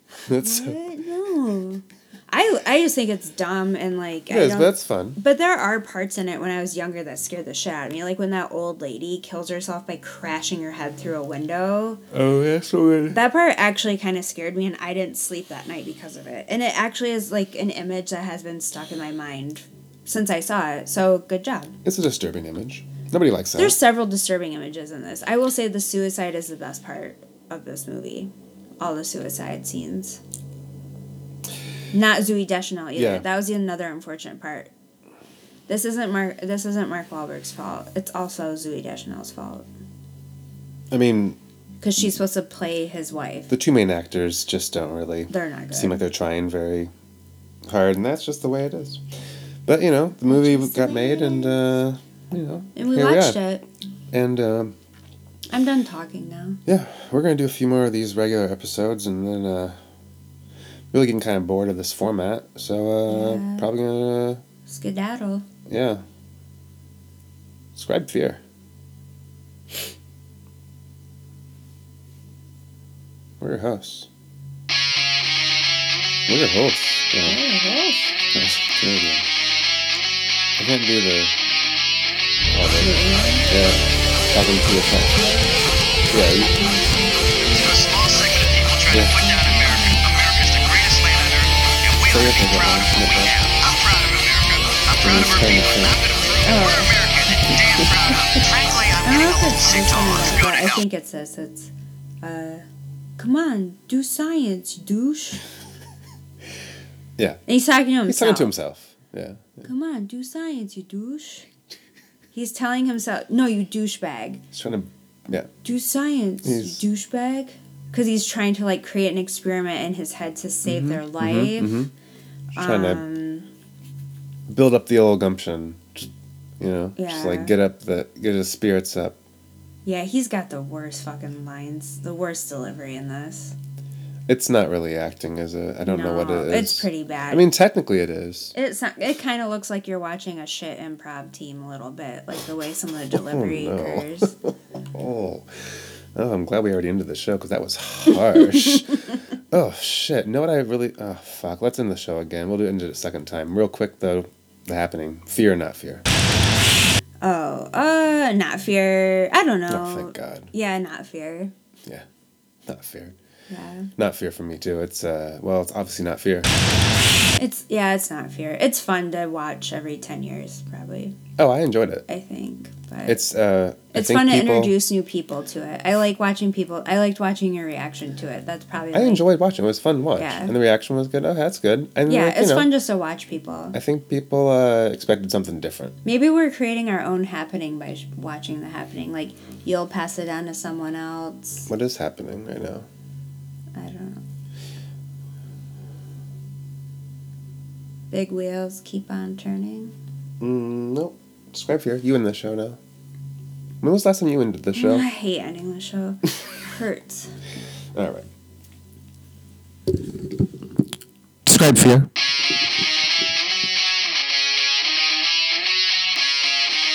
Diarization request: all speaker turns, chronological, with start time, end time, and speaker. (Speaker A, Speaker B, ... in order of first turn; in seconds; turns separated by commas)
Speaker A: 0.2-0.8, Speaker B: 0.3-12.0, Speaker A: 4.3-5.2, Speaker A: 12.1-13.2, Speaker B: 13.1-21.8, Speaker A: 21.8-23.8, Speaker B: 23.6-30.2, Speaker B: 31.9-34.7, Speaker A: 33.0-33.2, Speaker B: 35.7-39.6, Speaker A: 40.9-41.4, Speaker B: 41.8-43.5, Speaker A: 43.5-46.9, Speaker B: 45.3-46.0, Speaker A: 47.7-49.0, Speaker A: 49.6-53.4, Speaker B: 50.3-51.6, Speaker B: 52.7-53.6, Speaker A: 54.1-54.8, Speaker B: 55.5-56.6, Speaker A: 56.6-59.8, Speaker A: 60.9-64.4, Speaker B: 63.1-63.7, Speaker B: 64.7-65.5, Speaker A: 65.7-66.0, Speaker A: 67.7-68.4, Speaker A: 73.4-74.1, Speaker A: 76.3-77.4, Speaker B: 77.2-78.3, Speaker A: 78.3-79.2, Speaker A: 80.6-81.3, Speaker A: 82.5-85.2, Speaker B: 82.8-83.5, Speaker B: 85.1-85.6, Speaker A: 86.1-86.5, Speaker B: 86.3-87.7, Speaker C: 87.5-100.8, Speaker A: 88.9-89.2, Speaker B: 88.9-90.0, Speaker A: 92.1-93.3, Speaker A: 95.0-96.0, Speaker B: 96.4-96.9, Speaker B: 99.0-101.7, Speaker B: 102.2-102.6, Speaker B: 103.2-105.4, Speaker B: 107.5-108.5, Speaker A: 108.1-109.6, Speaker B: 109.6-111.5, Speaker B: 112.3-114.4, Speaker A: 114.5-115.5, Speaker B: 115.6-121.8, Speaker A: 116.4-116.8, Speaker A: 120.6-121.9, Speaker A: 122.5-123.0, Speaker B: 122.5-123.5, Speaker A: 124.5-129.2, Speaker B: 127.0-127.5, Speaker B: 129.8-133.5, Speaker A: 134.3-138.5, Speaker B: 135.8-137.4, Speaker B: 138.5-144.3, Speaker A: 143.1-156.0, Speaker B: 157.2-161.5, Speaker A: 159.7-160.5, Speaker A: 162.7-163.2, Speaker B: 163.5-163.9, Speaker A: 164.0-166.5, Speaker B: 167.4-171.2, Speaker A: 171.4-172.0, Speaker B: 172.1-173.2, Speaker A: 173.1-174.7, Speaker B: 173.9-179.2, Speaker A: 178.9-182.7, Speaker B: 180.2-180.5, Speaker B: 182.1-183.8, Speaker A: 183.7-185.9, Speaker B: 186.0-191.7, Speaker A: 191.7-192.8, Speaker B: 193.7-194.2, Speaker B: 198.1-199.9, Speaker A: 200.4-202.8, Speaker A: 203.8-205.1, Speaker B: 204.7-207.3, Speaker A: 207.9-208.3, Speaker A: 211.4-212.1